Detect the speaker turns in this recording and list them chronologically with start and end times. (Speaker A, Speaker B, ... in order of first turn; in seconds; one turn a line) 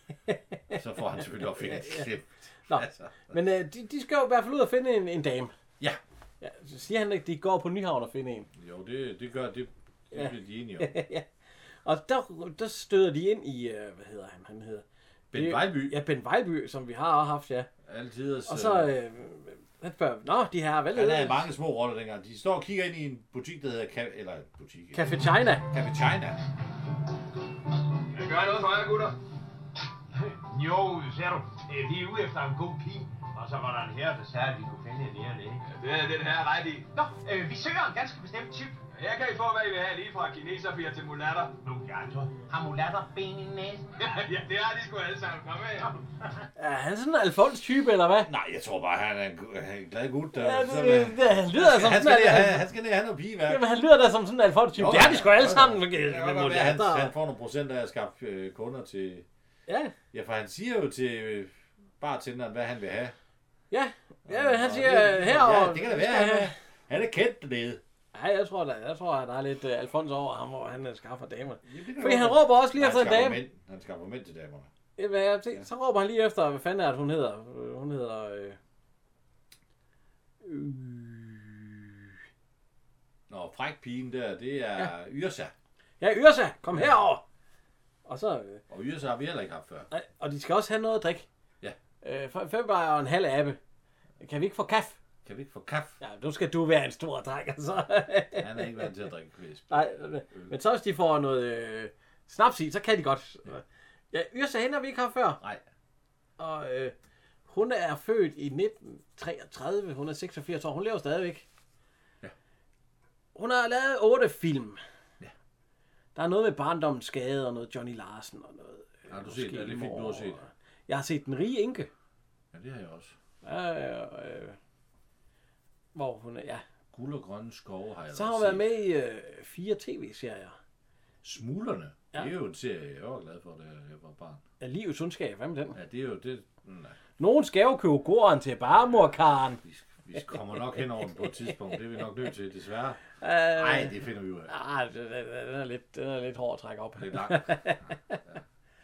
Speaker A: 0.7-3.3
Speaker B: 1.6-2.0
Speaker B: 2.7-5.5
Speaker B: 6.4-8.5
Speaker A: 8.6-10.9
Speaker B: 10.1-11.2
Speaker B: 11.8-17.7
Speaker A: 15.3-16.0
Speaker A: 17.9-18.9
Speaker B: 18.5-21.4
Speaker A: 20.9-26.4
Speaker B: 24.9-25.6
Speaker C: 28.1-29.1
Speaker D: 30.3-35.6
Speaker C: 35.7-36.9
Speaker E: 37.0-38.7
Speaker C: 38.9-41.5
Speaker D: 41.6-42.3
Speaker E: 42.5-43.9
Speaker C: 44.1-45.9
Speaker B: 46.6-48.3
Speaker A: 48.2-53.6
Speaker B: 50.3-52.7
Speaker B: 53.5-57.1
Speaker A: 54.7-59.2
Speaker B: 59.7-59.9
Speaker A: 60.1-63.1
Speaker B: 63.7-66.5
Speaker A: 64.2-67.8
Speaker B: 68.1-73.4
Speaker A: 71.6-74.7
Speaker B: 75.0-78.6
Speaker B: 80.4-81.9
Speaker A: 83.3-85.5
Speaker B: 86.0-87.2
Speaker B: 88.0-88.6
Speaker A: 88.7-89.9
Speaker B: 89.9-91.3
Speaker B: 92.0-93.6
Speaker B: 94.2-95.0
Speaker A: 95.2-96.0
Speaker B: 96.0-98.9
Speaker A: 98.4-99.8
Speaker B: 99.7-105.4
Speaker B: 106.4-106.9
Speaker B: 107.5-111.5
Speaker B: 113.3-114.8
Speaker B: 116.1-121.9
Speaker A: 119.1-120.4
Speaker A: 122.5-123.1
Speaker B: 123.4-124.6
Speaker B: 125.9-126.6
Speaker A: 126.9-128.7
Speaker B: 128.1-130.6
Speaker A: 131.2-134.4
Speaker B: 134.6-135.8
Speaker A: 135.7-137.0
Speaker B: 137.2-139.6
Speaker A: 139.6-143.0
Speaker B: 143.2-143.9
Speaker A: 143.5-144.5
Speaker B: 144.5-148.2
Speaker A: 147.0-147.8